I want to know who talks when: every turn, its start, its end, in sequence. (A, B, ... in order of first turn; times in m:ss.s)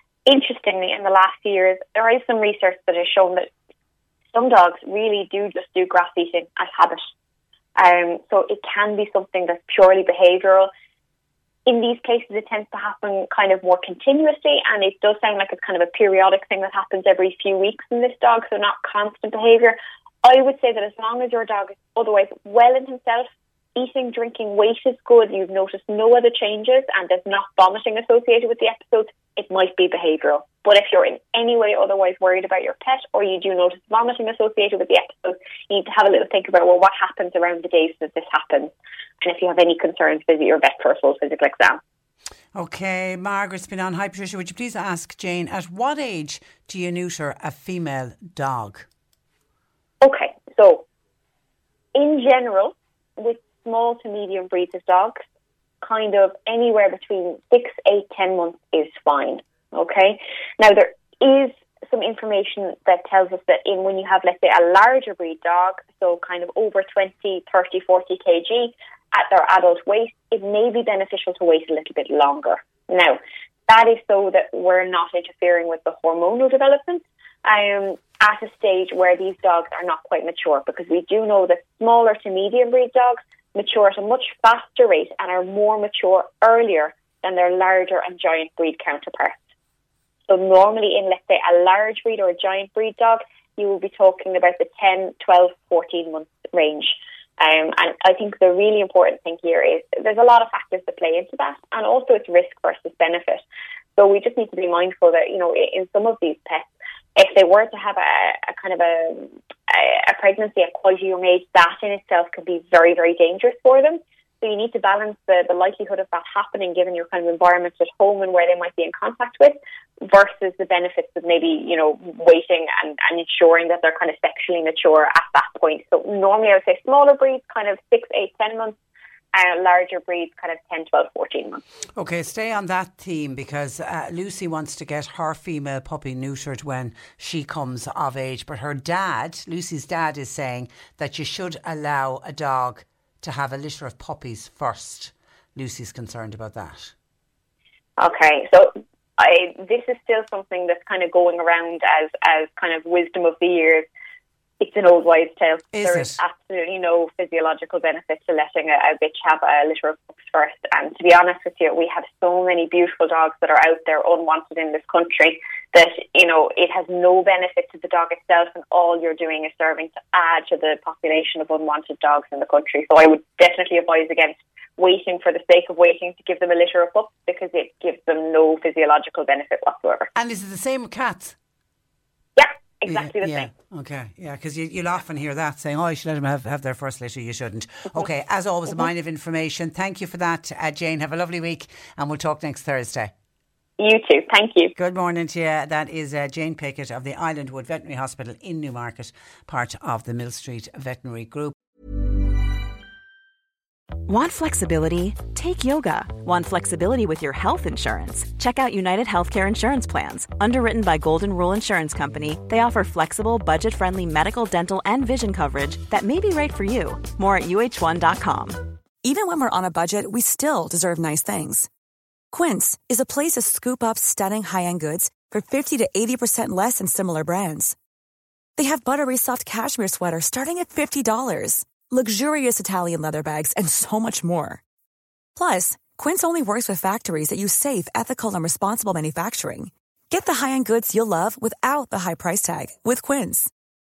0:00.3-0:03.5 A
0:04.3-0:07.0 A
0:07.8-0:10.7 A
0:11.7-0:41.8 A
0:42.6-0:48.9 B
0:50.0-0:50.9 A
0:52.0-0:55.2 A
0:55.8-1:29.4 A
1:30.3-1:43.4 A
1:44.0-2:08.8 A
2:09.3-2:11.6 A
2:12.0-2:26.9 B
2:28.0-2:33.9 A
2:34.6-3:00.1 A
2:35.7-2:36.2 B
3:00.2-3:01.4 B
3:02.4-3:03.5 A
3:02.9-3:13.1 B
3:13.8-3:14.7 A
3:14.8-3:21.6 B
3:24.1-3:38.7 C
3:39.0-3:41.7 D
3:42.3-3:47.8 D
3:48.6-3:54.6 D
3:55.4-4:03.5 D